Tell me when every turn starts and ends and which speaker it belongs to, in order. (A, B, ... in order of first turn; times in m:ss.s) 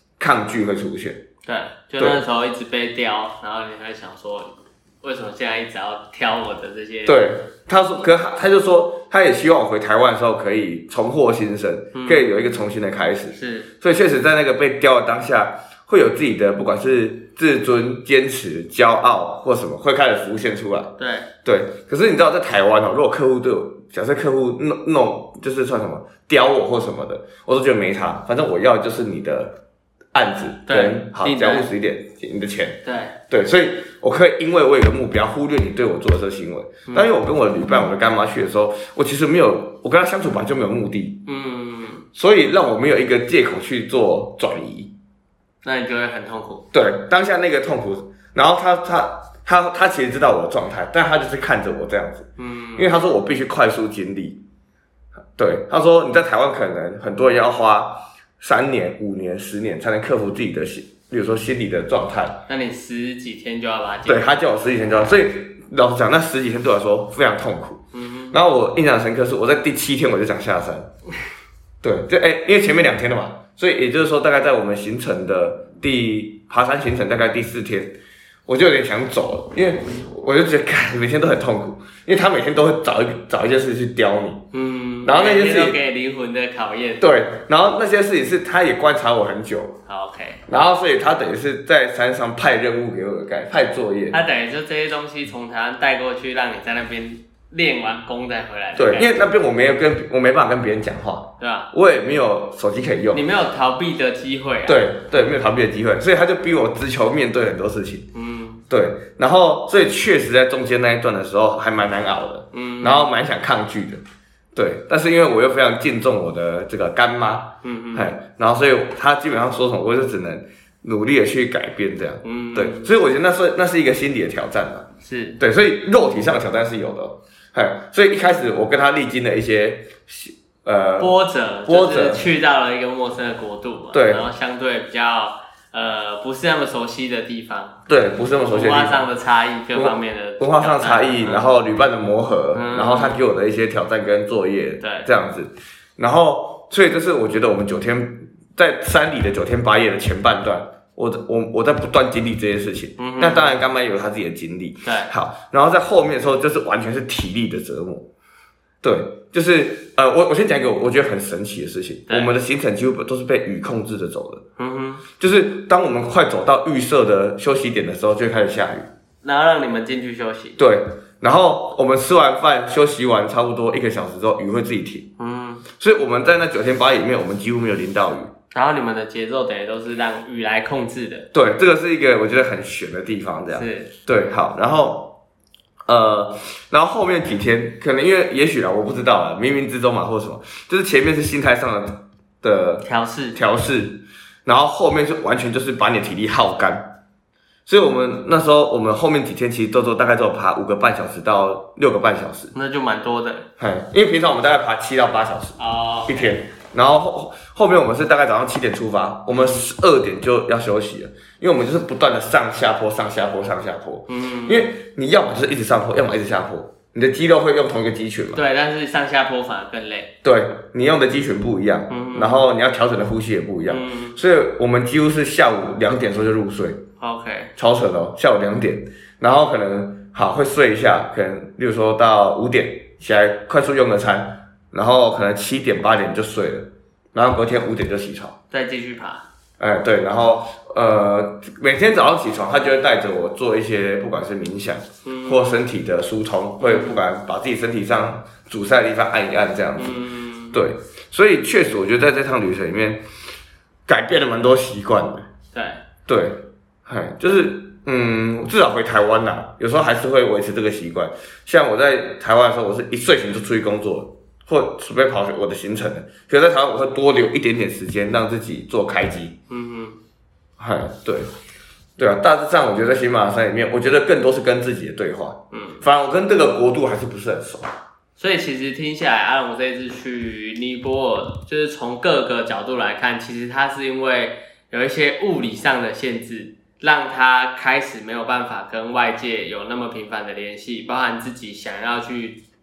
0:00.2-0:01.2 A
0:01.4-0:07.2 B
0:07.0-0:29.6 A
0:11.9-0:12.2 B
0:13.3-0:13.7 B
0:21.0-0:21.3 B
0:30.1-0:41.2 A
0:30.7-0:31.7 B
0:32.8-0:33.2 B
0:41.2-0:42.0 B
0:42.1-0:44.9 A
0:45.6-0:46.6 B
0:46.7-0:54.4 A
0:52.4-0:52.9 B
0:55.4-1:02.4 A
1:02.5-1:04.4 B
1:04.0-1:10.9 A
1:07.9-1:08.4 B
1:11.8-1:18.0 A
1:18.5-1:24.4 A
1:24.5-1:27.0 B
1:25.0-1:25.8 A
1:27.0-1:29.8 A
1:29.9-1:30.4 B
1:30.5-1:34.2 A
1:34.1-1:39.1 B
1:38.8-1:43.2 A
1:41.4-1:41.7 B
1:43.1-1:44.8 B
1:44.7-1:48.1 A
1:48.1-1:48.6 B
1:48.7-1:54.0 A
1:52.5-1:53.1 B
1:54.5-2:04.9 A
1:57.6-1:58.1 B
2:02.2-2:02.9 B
2:05.0-2:05.4 B
2:05.4-2:11.1 A
2:11.0-2:17.8 B
2:11.7-2:12.2 A
2:13.9-2:14.2 A
2:17.9-2:19.1 A
2:18.5-2:21.5 B
2:19.7-2:38.1 A
2:22.5-2:23.2 B
2:24.8-2:25.1 B
2:33.0-2:33.6 B
2:34.8-2:35.1 B
2:38.8-2:44.4 A
2:44.6-2:45.0 B
2:45.2-2:48.9 A
2:49.2-2:50.6 B
2:50.6-2:55.1 A
2:55.2-2:55.6 B
2:55.8-2:58.3 A
2:58.5-3:01.3 B
3:01.3-3:05.2 A
3:03.5-3:03.9 B
3:05.9-3:16.9 A
3:12.8-3:13.4 B
3:17.7-3:22.5 A
3:22.5-3:23.5 B
3:23.6-3:38.4 A
3:25.6-3:26.3 B
3:29.3-3:29.6 B
3:34.1-3:34.7 B
3:38.3-3:40.1 B
3:40.2-3:46.8 A
3:41.9-3:42.4 B
3:43.6-3:44.2 B
3:47.0-3:47.5 B
3:47.6-3:58.3 A
3:58.5-3:59.2 B
3:59.6-4:10.0 A
4:05.0-4:05.6 B
4:06.6-4:07.0 B
4:09.8-4:10.6 B
4:10.5-4:13.0 A
4:13.9-4:15.2 A
4:15.5-4:15.8 B
4:16.1-4:29.3 A
4:29.5-4:30.0 B
4:30.6-4:31.3 A
4:32.0-4:37.7 A
4:35.5-4:35.8 B
4:38.2-4:52.4 B